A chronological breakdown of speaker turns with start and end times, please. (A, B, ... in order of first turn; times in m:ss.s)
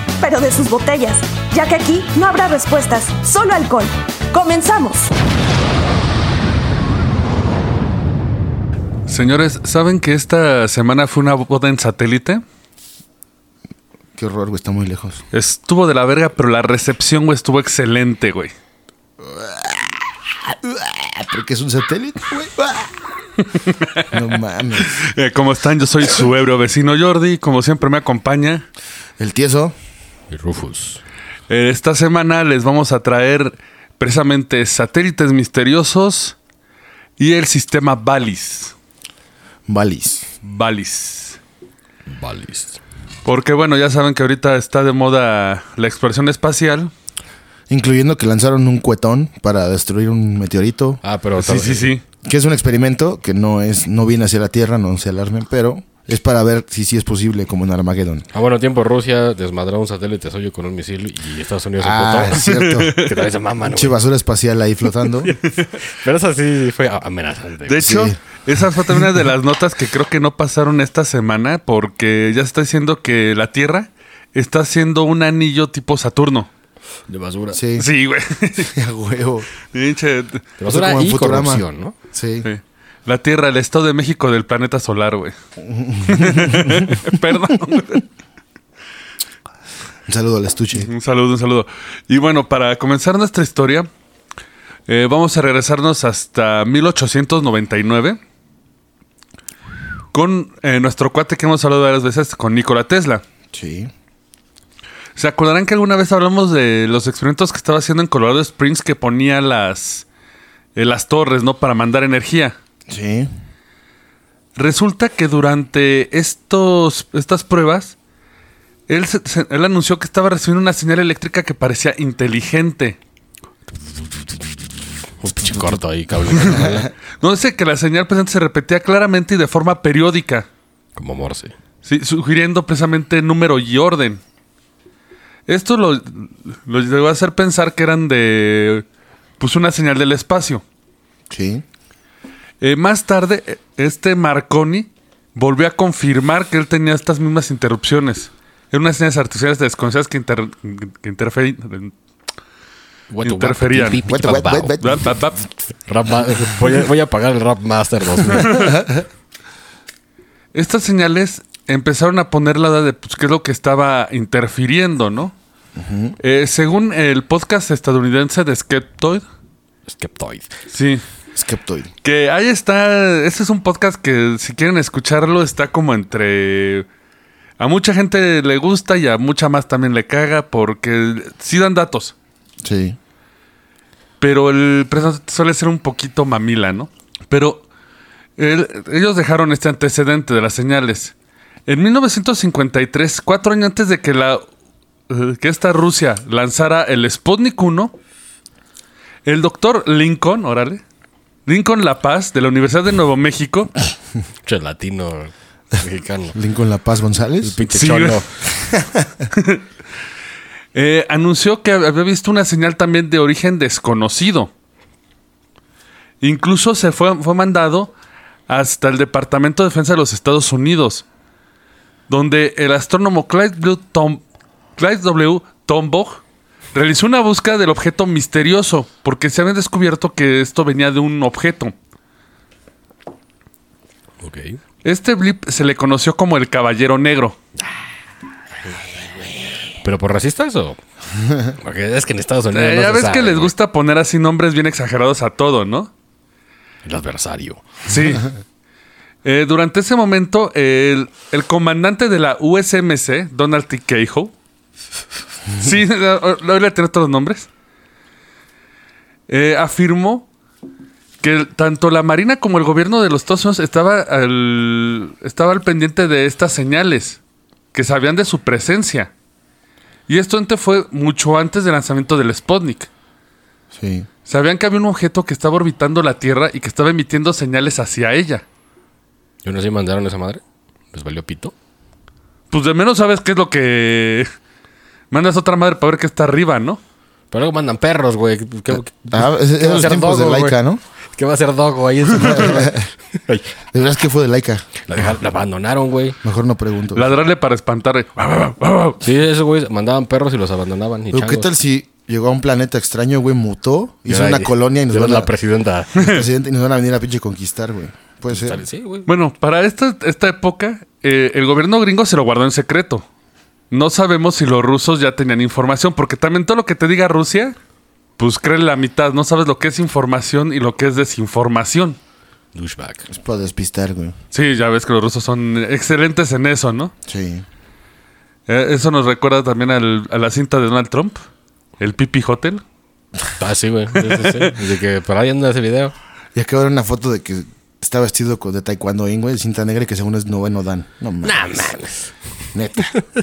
0:00.2-0:05.1 A
0:09.1-0:12.4 B
0:14.2-0:15.2 C
0:15.3-0:18.5 B
0:19.2-0:19.9 C
0:20.4-0:22.9 C
0:23.6-0:24.1 B
0:24.1-0:25.0 C
0:24.8-0:28.7 B
0:29.2-0:29.8 C
0:30.3-0:31.0 D
0:31.5-0:36.4 B
0:37.2-0:38.7 B
0:39.7-0:40.3 C
0:40.4-0:41.4 B
0:42.1-0:42.8 D
0:43.2-0:46.9 B
0:47.7-0:51.0 C
0:51.0-0:51.9 D
0:51.4-0:52.0 B
0:52.2-0:58.3 C
0:58.3-1:04.0 D
1:01.8-1:03.0 C
1:02.4-1:03.2 B
1:03.7-1:05.3 C
1:05.3-1:05.7 B
1:05.8-1:07.8 D
1:07.7-1:16.5 B
1:07.8-1:08.2 C
1:17.1-1:17.6 D
1:17.5-1:17.9 C
1:17.8-1:18.7 B
1:18.7-1:19.5 C
1:19.7-1:20.5 B
1:20.6-1:22.0 D
1:20.7-1:22.5 C
1:22.4-1:25.4 B
1:25.6-1:27.0 C
1:26.1-1:28.0 B
1:30.1-1:30.9 C
1:30.7-1:33.9 B
1:34.9-1:38.2 B
1:40.1-1:43.2 B
1:43.5-1:43.9 C
1:45.2-1:50.0 B
1:50.8-1:52.6 B
1:52.9-1:53.3 C
1:54.6-1:58.0 B
1:58.9-2:03.0 B
2:05.2-2:06.9 D
2:06.3-2:06.7 B
2:07.2-2:10.5 B
2:11.0-2:11.6 D
2:11.8-2:14.2 B
2:15.5-2:18.8 B
2:19.4-2:20.6 B
2:21.3-2:21.6 C
2:22.6-2:31.9 B
2:33.1-2:34.8 D
2:33.2-2:34.0 B
2:34.0-2:35.1 C
2:34.8-2:35.5 B
2:35.9-2:38.8 D
2:38.4-2:38.8 B
2:38.7-2:38.9 C
2:40.5-2:45.4 B
2:45.8-2:46.2 C
2:46.2-2:49.2 B
2:49.9-2:50.5 D
2:50.7-2:51.0 B
2:51.4-2:51.9 C
2:52.0-2:56.9 B
2:57.6-3:02.1 B
3:02.6-3:03.0 C
3:04.2-3:07.6 B
3:08.4-3:11.1 B
3:11.7-3:14.5 B
3:15.1-3:17.9 B
3:19.2-3:20.8 B
3:21.5-3:23.7 B
3:24.4-3:26.4 D
3:26.4-3:27.6 C
3:27.4-3:28.3 D
3:27.7-3:28.3 B
3:28.6-3:29.3 C
3:29.3-3:29.6 B
3:30.8-3:34.5 B
3:36.2-3:37.9 B
3:38.5-3:41.0 B
3:42.1-3:44.2 B
3:44.8-3:46.2 B
3:46.7-3:51.7 B
3:54.2-3:54.6 D
3:54.8-3:57.4 B
3:59.8-4:00.8 D
4:01.4-4:03.5 D
4:02.5-4:05.9 B
4:06.8-4:07.7 D
4:07.9-4:08.3 B
4:09.2-4:14.3 B
4:15.5-4:17.5 B
4:19.3-4:20.3 B
4:21.2-4:27.2 B
4:27.7-4:29.1 B
4:30.1-4:32.9 B
4:33.7-4:34.1 C
4:34.3-4:38.4 B
4:39.4-4:41.5 D
4:42.5-4:44.3 B
4:45.1-4:46.8 B
4:47.3-4:50.6 D
4:48.7-4:50.8 C
4:51.2-4:53.5 D
4:52.2-4:52.9 C
4:53.7-4:54.7 C
4:54.9-4:56.2 D
4:56.2-4:57.1 C
4:56.9-4:59.0 B
4:59.0-5:01.5 D
5:01.1-5:05.3 C
5:04.1-5:05.9 D
5:06.0-5:08.6 C
5:06.0-5:06.2 B
5:08.3-5:09.1 D
5:09.1-5:13.0 B
5:13.7-5:17.6 B
5:18.2-5:22.0 B
5:22.5-5:23.1 D
5:23.1-5:24.2 C
5:24.3-5:26.9 B
5:27.1-5:27.4 C
5:28.5-5:31.2 B
5:31.8-5:32.6 B
5:33.4-5:35.9 D
5:34.0-5:34.5 B
5:36.3-5:41.7 C
5:41.2-5:42.1 D
5:42.5-5:42.9 C